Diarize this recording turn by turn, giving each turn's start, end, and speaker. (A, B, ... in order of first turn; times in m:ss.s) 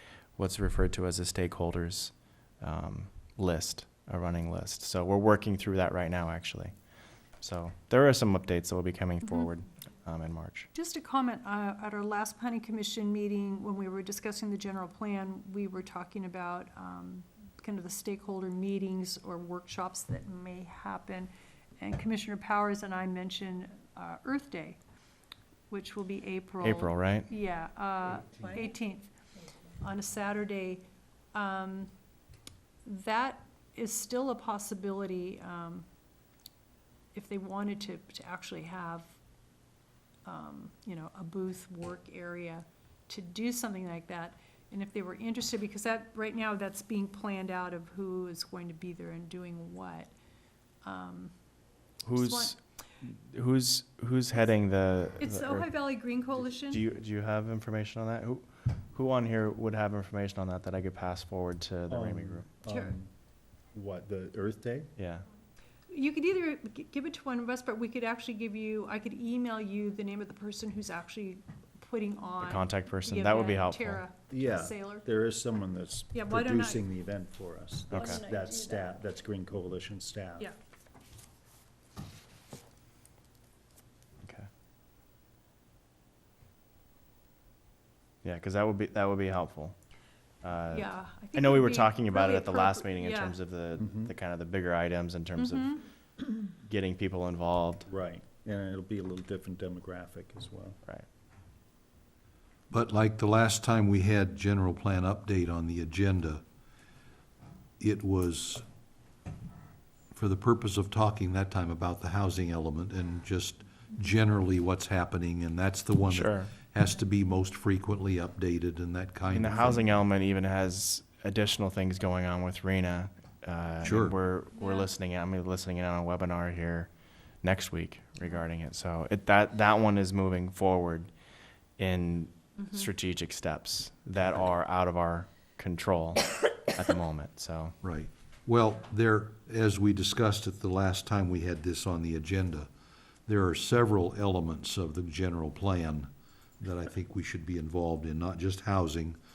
0:00.4-0:06.7 A
0:07.4-0:10.7 A
0:10.7-0:24.8 B
0:25.7-0:29.1 B
0:26.6-0:27.3 A
0:29.8-0:31.9 B
0:32.8-0:35.8 B
0:37.1-0:39.1 B
0:40.2-0:50.1 B
0:50.8-0:51.3 B
0:52.0-0:55.7 A
0:52.1-0:52.6 B
0:55.2-0:56.8 B
0:56.7-1:02.6 A
1:01.9-1:03.1 C
1:02.6-1:03.0 B
1:03.7-1:04.9 C
1:05.0-1:05.2 A
1:05.9-1:15.0 B
1:12.4-1:14.0 A
1:14.3-1:20.5 C
1:16.1-1:16.8 B
1:17.9-1:18.2 A
1:17.9-1:19.0 B
1:28.2-1:29.7 A
1:30.4-1:35.8 A
1:30.7-1:33.4 B
1:33.8-1:34.1 C
1:35.4-1:35.8 B
1:36.4-1:37.8 A
1:37.9-1:40.8 C
1:42.7-1:46.4 D
1:47.8-1:48.6 D
1:50.1-2:00.0 D
1:56.1-1:56.5 A
1:59.3-2:06.9 A
2:03.8-2:04.2 D
2:04.6-2:04.9 B
2:07.4-2:11.1 A
2:11.8-2:17.7 A
2:12.6-2:12.9 B
2:17.8-2:22.7 D
2:23.3-2:29.2 D